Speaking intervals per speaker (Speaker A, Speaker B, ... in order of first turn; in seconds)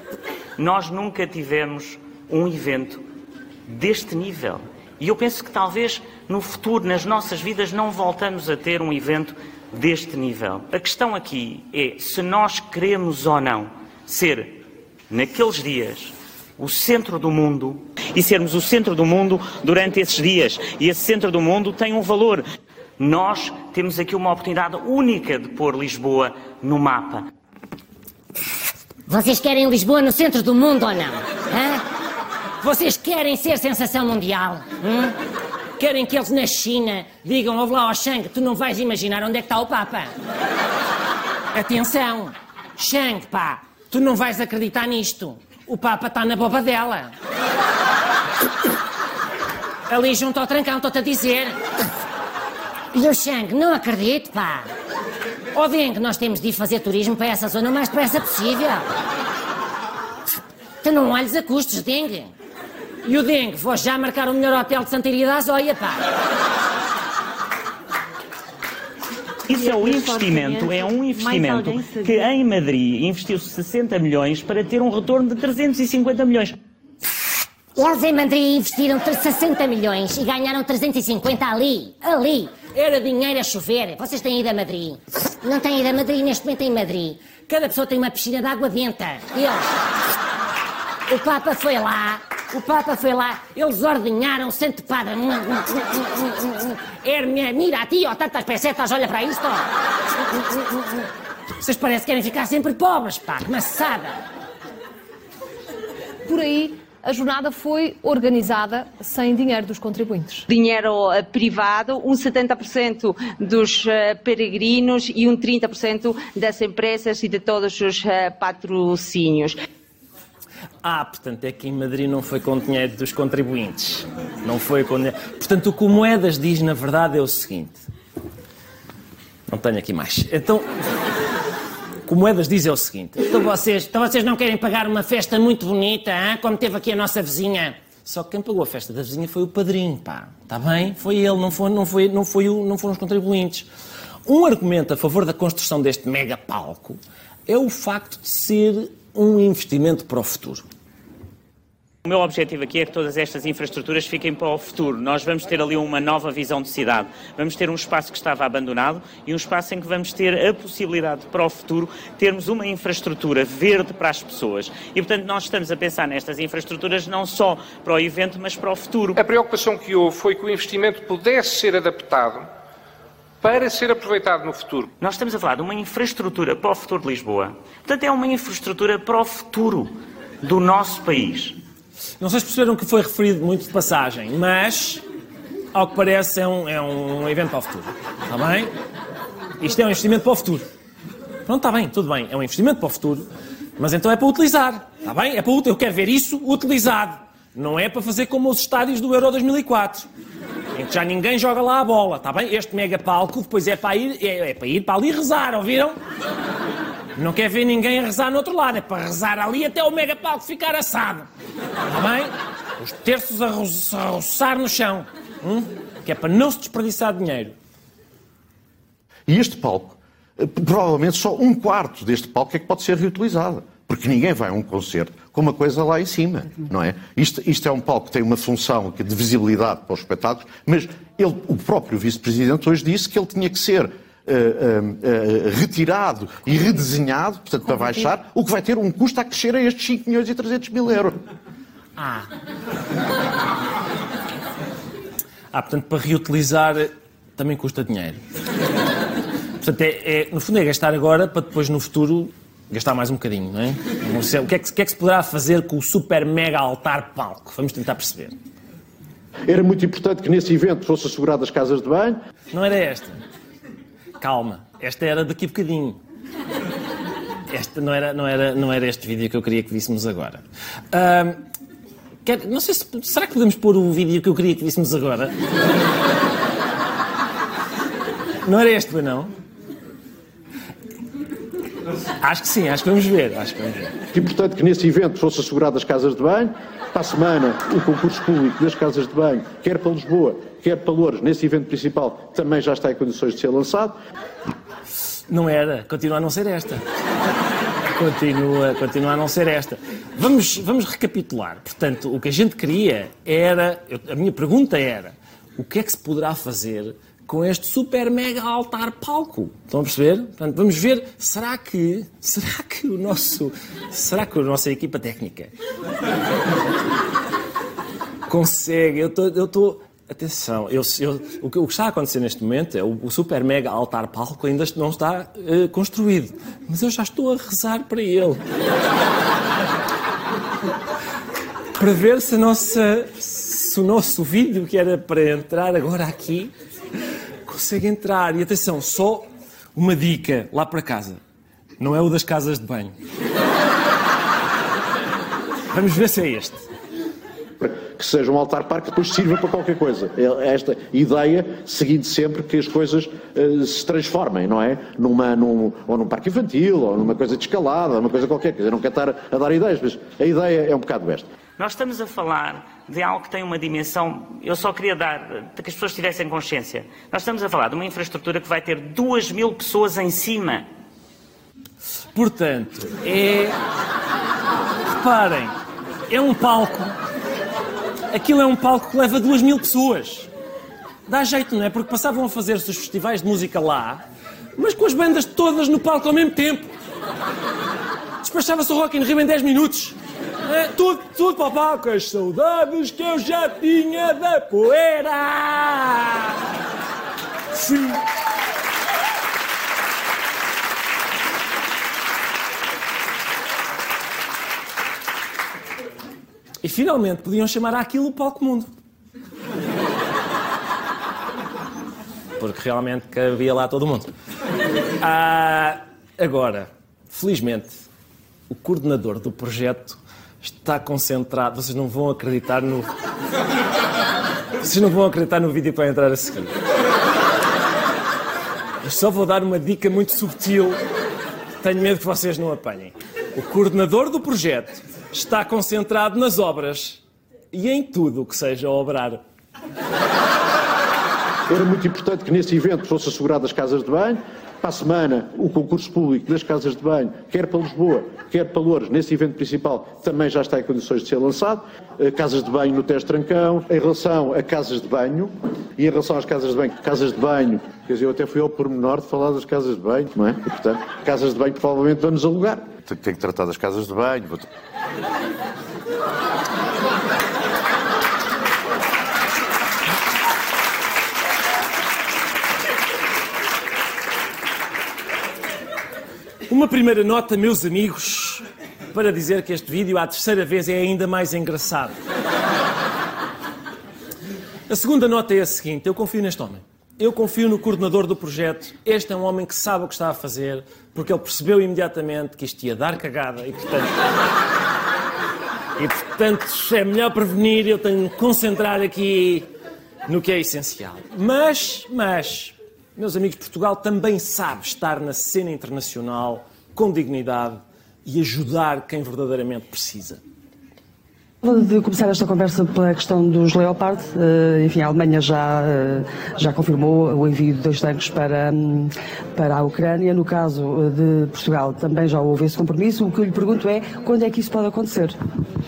Speaker A: 0.6-3.0, 3.7-14.6, 15.1-22.4, 23.0-27.3, 69.5-76.6, 152.0-169.2, 175.0-181.6, 361.6-370.7
Speaker B: 29.1-31.8, 32.6-35.1, 35.8-40.1, 41.5-47.1, 49.9-51.6, 52.9-54.7, 55.5-58.8, 60.8-62.3, 63.0-66.0, 77.8-89.6, 91.1-99.7, 100.3-101.1, 101.6-104.2, 133.8-137.8
Speaker C: 106.2-110.4
Speaker D: 110.5-119.6
Speaker E: 120.8-127.8, 129.5-130.7, 132.1-136.1, 138.0-143.7, 144.2-150.6, 182.2-185.0, 185.7-188.7, 189.6-190.6, 191.4-193.2, 193.8-200.1, 200.7-206.0, 207.2-211.3, 211.9-217.5, 242.0-242.2, 245.5-248.2, 249.6-258.4, 262.5-263.2, 264.2-266.0, 267.5-271.4, 272.2-275.3, 278.4-279.3, 282.2-284.0, 295.3-296.8, 297.9-315.5, 318.3-328.4, 331.8-336.5, 337.4-341.2, 341.8-342.9, 345.7-346.6, 372.1-373.6, 374.9-375.6, 376.1-376.9, 378.1-380.3, 381.1-384.0, 384.6-386.7, 388.2-396.4, 397.5-398.0, 406.6-408.7, 412.4-414.1, 415.0-417.8, 418.5-422.9, 424.6-426.5, 428.8-430.8, 431.6-437.0, 437.5-439.2, 476.5-482.0, 484.7-493.9, 495.8-499.5, 500.1-510.2
Speaker F: 169.1-172.5, 173.4-174.9
Speaker G: 219.3-241.2, 259.5-262.2, 284.1-294.0, 347.6-361.3, 441.5-464.5
Speaker H: 511.4-525.2